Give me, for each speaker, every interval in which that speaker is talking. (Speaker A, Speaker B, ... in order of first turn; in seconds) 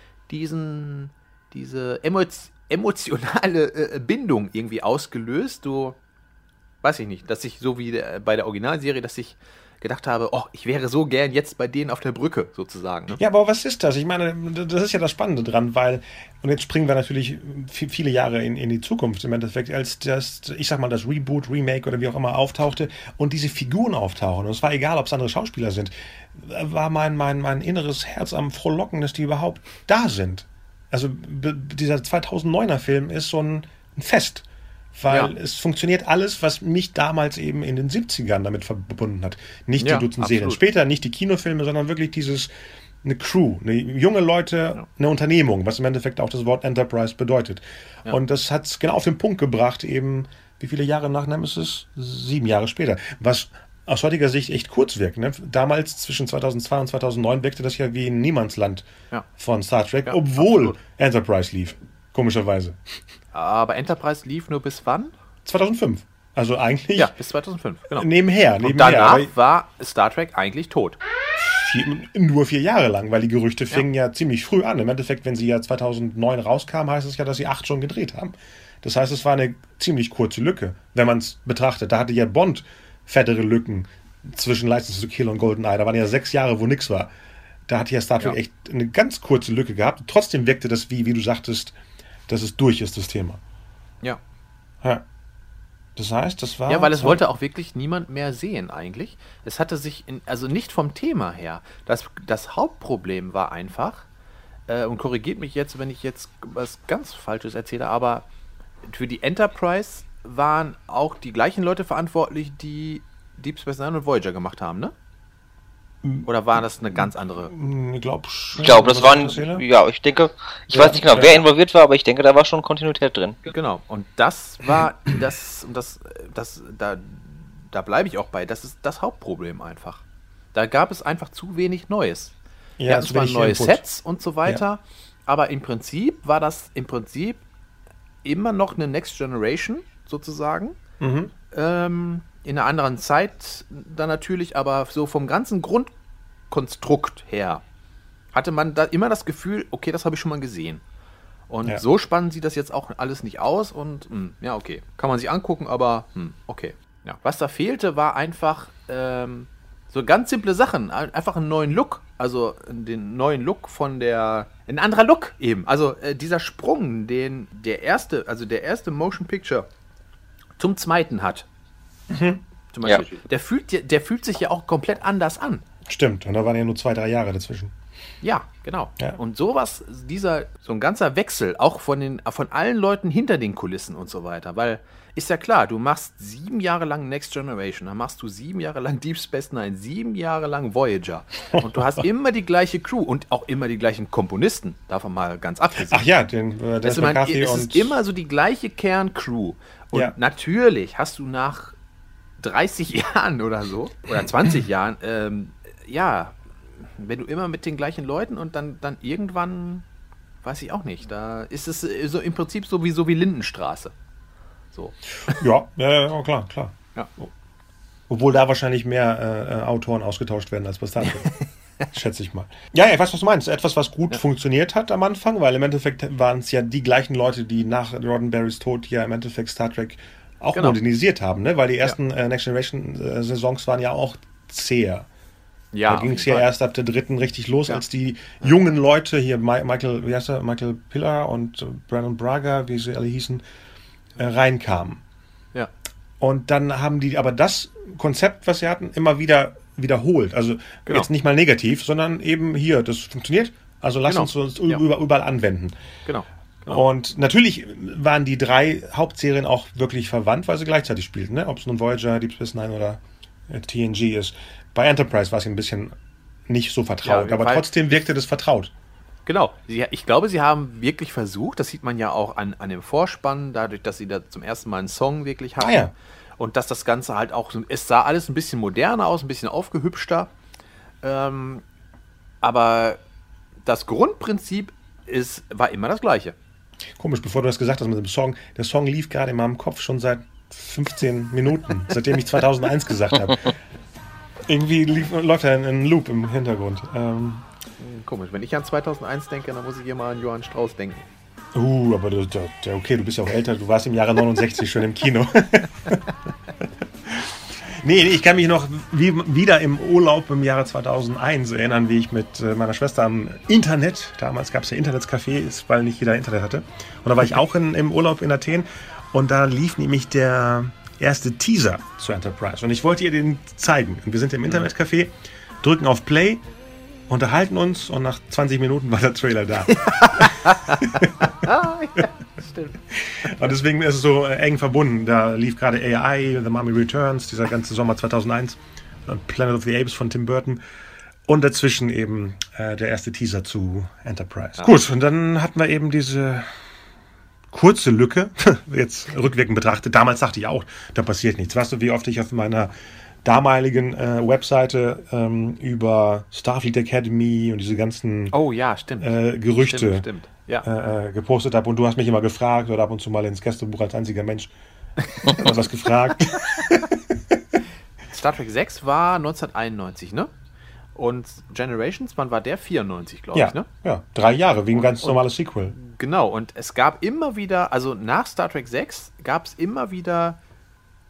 Speaker A: 0.3-6.0, 6.8-13.2, 39.8-40.6, 60.1-60.8, 63.3-65.1, 67.0-71.0, 96.7-104.1, 104.7-108.3, 108.8-114.9, 116.2-117.5, 123.5-130.0, 130.5-132.4, 132.9-137.4, 138.2-140.8, 141.5-145.9, 146.5-147.6, 148.3-150.8, 151.5-169.7, 170.6-171.5, 172.7-175.7, 178.2-196.1, 196.8-201.8, 202.4-209.8, 210.4-213.9, 214.7-215.4, 221.2-221.5, 235.7-236.5, 254.1-254.8, 256.1-256.8, 267.0-267.7, 269.3-280.3, 281.0-281.6, 282.4-283.0, 283.6-286.4, 297.8-301.1, 329.7-332.8, 358.3-360.7, 365.2-365.5, 368.1-370.3, 370.9-373.7, 374.8-375.2, 375.8-380.4
Speaker B: 13.2-42.5, 43.0-58.9, 59.4-62.8, 65.5-67.1, 68.0-69.3, 71.4-87.1, 87.7-91.8, 92.3-93.4, 96.0-97.2, 116.0-116.3, 117.0-119.6, 120.7-121.4, 132.8-133.8, 141.0-141.3, 172.1-172.4, 175.9-177.7, 195.9-198.0, 215.3-217.3, 218.1-221.3, 221.9-235.1, 235.9-243.4, 244.2-245.0, 246.2-255.8, 256.7-265.9, 266.5-268.7, 275.6-275.9, 287.0-293.6, 294.5-297.5, 301.5-306.0, 307.1-326.4, 327.1-332.1, 332.9-340.6, 341.3-346.6, 347.5-352.7, 353.2-358.3, 359.0-360.1, 360.6-364.5, 365.2-367.4, 373.3-375.8
Speaker C: 118.6-123.4